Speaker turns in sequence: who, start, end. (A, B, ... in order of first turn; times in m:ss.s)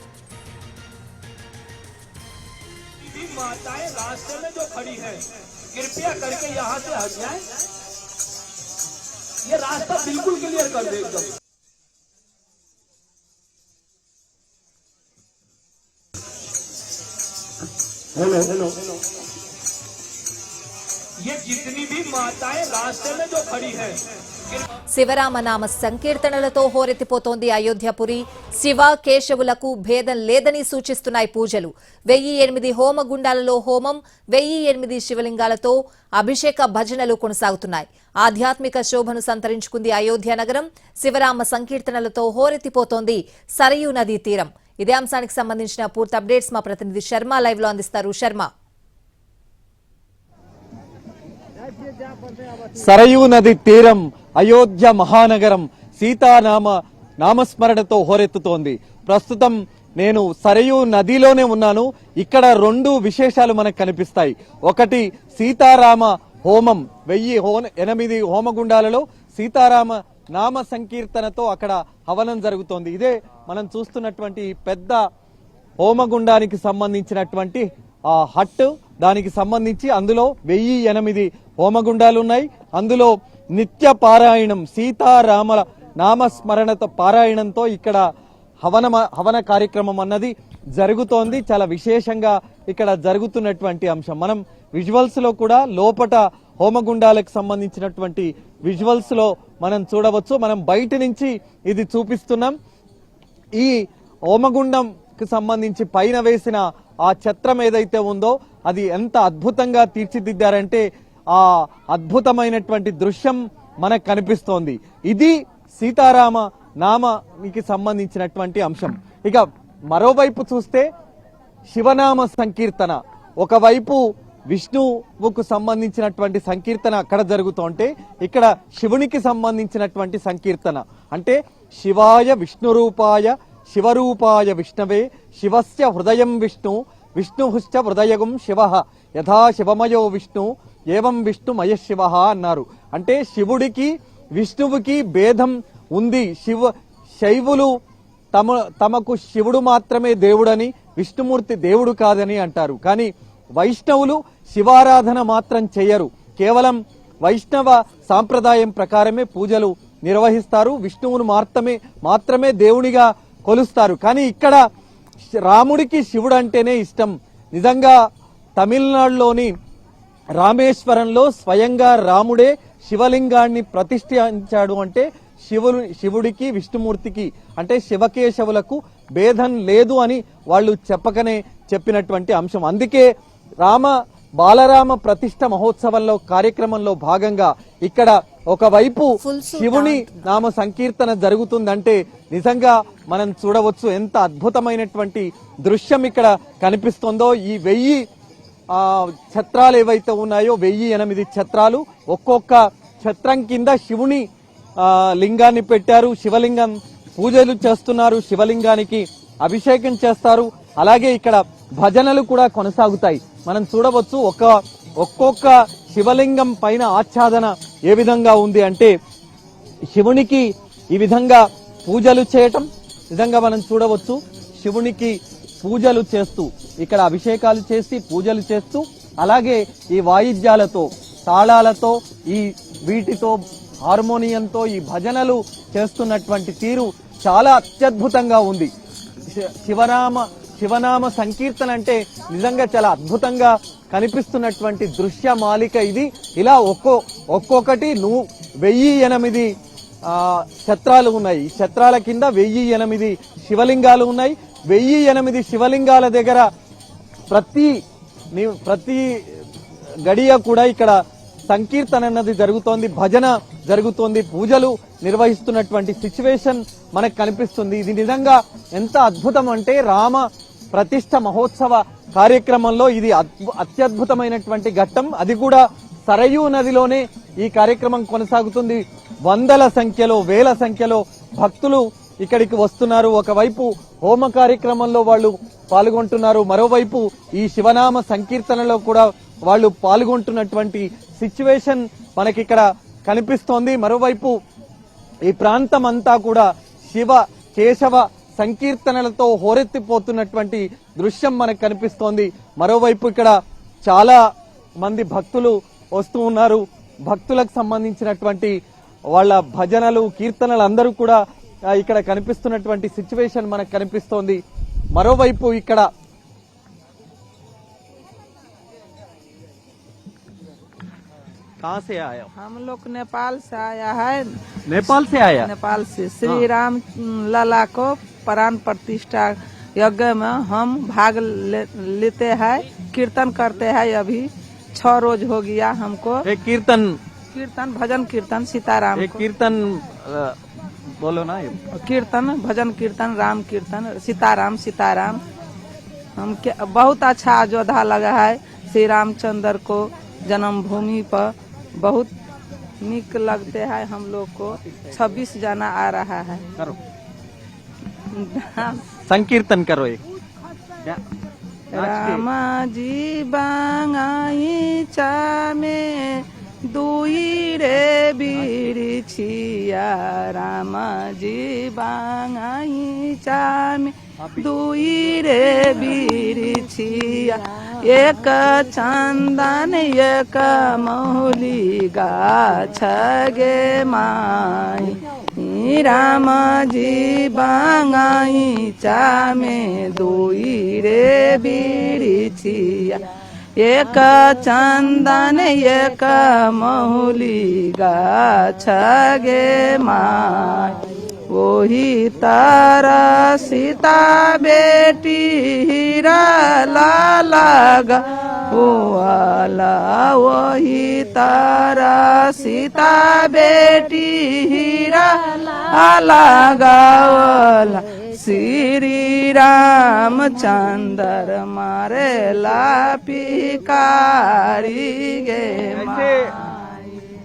0:03.0-0:07.5 A
0:09.4-0:11.4 A
0:18.4-0:18.7 A
0:21.2-0:24.6 A
0:24.9-0:48.5 B
0:52.7-1:15.0 C
1:15.8-1:28.0 C
1:28.6-1:42.5 C
1:44.3-2:00.9 C
2:01.7-2:27.7 C
2:28.3-2:44.6 C
2:45.4-2:48.0 C
2:48.6-2:49.5 C
2:50.4-3:03.1 C
3:03.6-3:18.0 C
3:09.2-3:10.3 B
3:18.7-3:24.2 C
3:24.8-3:38.9 C
3:39.9-3:58.7 C
3:59.3-4:09.5 C
4:10.1-4:16.5 C
4:17.3-4:17.8 C
4:18.3-4:19.4 C
4:20.0-4:21.0 C
4:21.5-4:54.4 C
4:55.3-5:04.2 C
5:04.8-5:08.6 C
5:09.1-5:11.2 C
5:11.7-5:14.4 C
5:14.9-5:15.9 C
5:21.6-5:22.3 C
5:22.4-5:24.3 D
5:24.7-5:25.5 C
5:24.9-5:36.3 D
5:36.2-5:37.0 C
5:37.3-5:39.2 D
5:39.0-5:40.4 C
5:41.0-5:41.6 C
5:41.7-5:45.2 D
5:46.2-5:52.1 D
5:52.8-5:56.4 D
5:54.7-5:55.0 C
5:58.1-5:58.8 D
5:59.0-6:00.0 C
6:01.7-6:33.0 D
6:01.7-6:02.3 C
6:14.2-6:14.5 C
6:33.6-6:40.8 D
6:41.3-7:07.0 D
7:05.8-7:06.2 C